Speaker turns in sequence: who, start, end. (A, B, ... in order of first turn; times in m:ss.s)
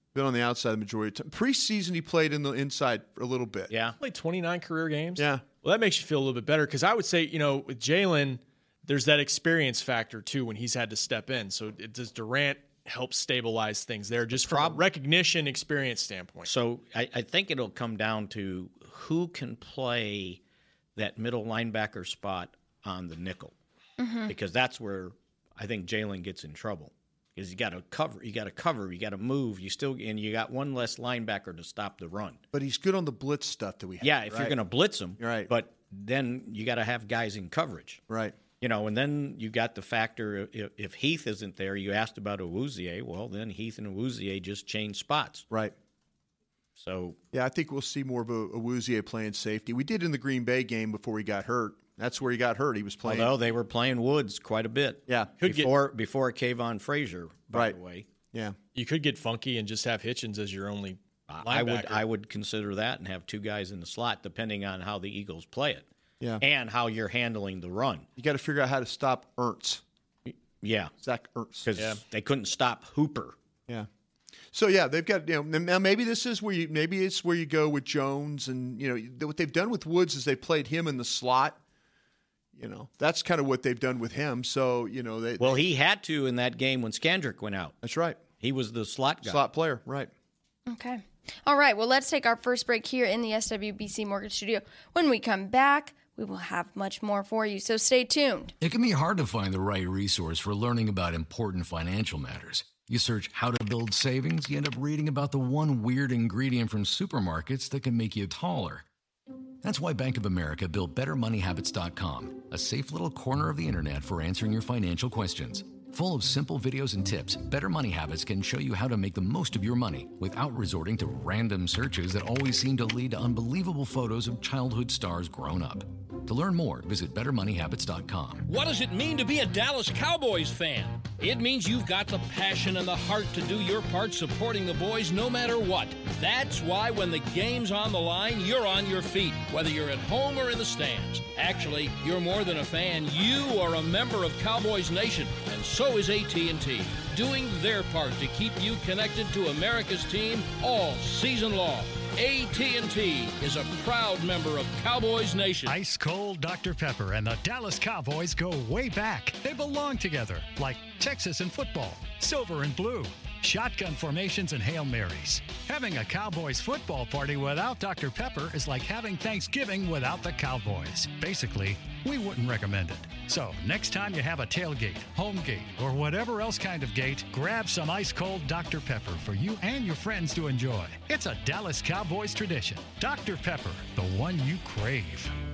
0:00.1-0:03.7 A
0:03.7-0:04.0 B
0:04.0-0:16.5 C
0:05.2-0:05.4 A
0:14.3-0:14.8 B
0:16.5-0:20.4 B
0:21.0-0:23.5 B
0:24.0-0:24.3 D
0:24.3-0:32.4 B
0:32.5-0:34.6 A
0:34.0-0:38.0 B
0:35.2-0:35.5 A
0:38.1-0:38.4 A
0:38.6-0:45.4 B
0:46.8-0:47.2 B
0:47.3-0:53.3 A
0:53.0-0:58.1 B
0:55.1-0:55.4 A
0:55.4-0:55.7 C
0:58.7-1:02.0 C
1:01.3-1:05.8 B
1:06.4-1:08.1 B
1:08.2-1:09.8 A
1:10.2-1:10.9 B
1:11.0-1:11.7 A
1:11.6-1:13.4 B
1:14.5-1:21.6 A
1:22.6-1:25.6 A
1:25.4-1:27.8 B
1:27.8-1:28.2 A
1:28.4-1:29.4 B
1:29.2-1:30.1 A
1:30.7-1:38.5 D
1:38.6-1:48.8 E
1:49.6-2:08.4 E
2:08.4-2:35.7 F
2:35.6-3:05.3 G